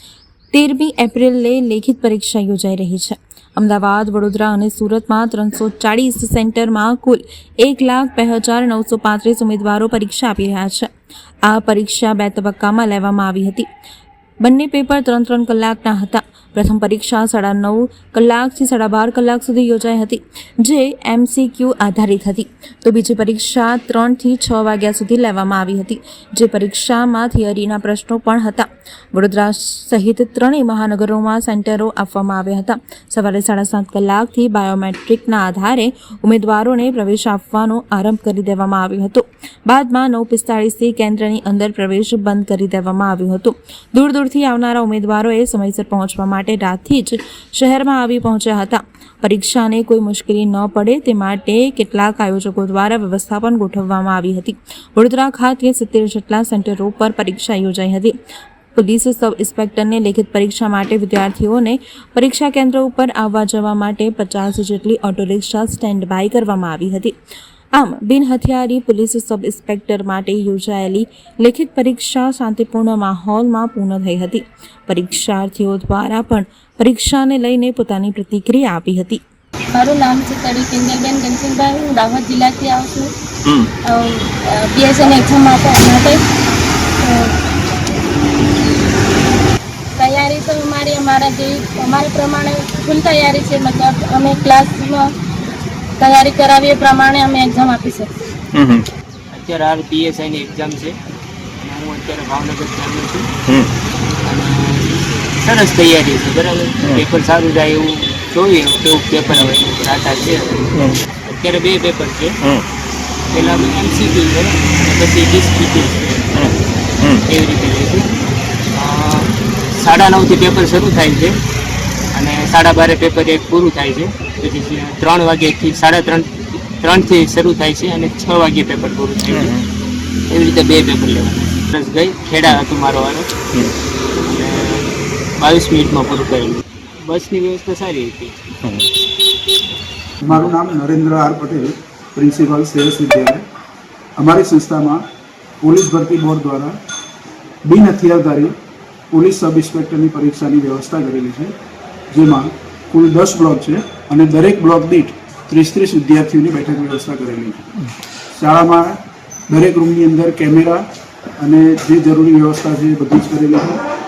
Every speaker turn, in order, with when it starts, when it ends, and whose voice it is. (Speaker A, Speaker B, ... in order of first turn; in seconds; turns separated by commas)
Speaker A: 0.5-10.9, Speaker A: 11.5-13.7, Speaker A: 14.4-58.1, Speaker A: 58.7-67.1, Speaker A: 67.7-79.2, Speaker B: 79.7-86.2, Speaker B: 87.0-87.3, Speaker B: 90.0-95.1, Speaker B: 96.0-98.9, Speaker C: 99.3-101.0, Speaker C: 101.6-103.3, Speaker C: 104.2-110.7, Speaker C: 111.2-112.4, Speaker C: 113.3-116.5, Speaker B: 116.4-117.2, Speaker C: 117.1-118.1, Speaker C: 118.7-121.4, Speaker C: 122.1-129.6, Speaker B: 129.3-129.6, Speaker C: 130.3-133.4, Speaker C: 134.2-138.4, Speaker D: 140.2-143.4, Speaker D: 144.2-145.0, Speaker D: 145.6-146.8, Speaker D: 147.7-148.5, Speaker D: 149.1-151.5, Speaker D: 152.1-157.8, Speaker D: 158.3-159.0, Speaker D: 159.5-160.8, Speaker D: 161.4-163.8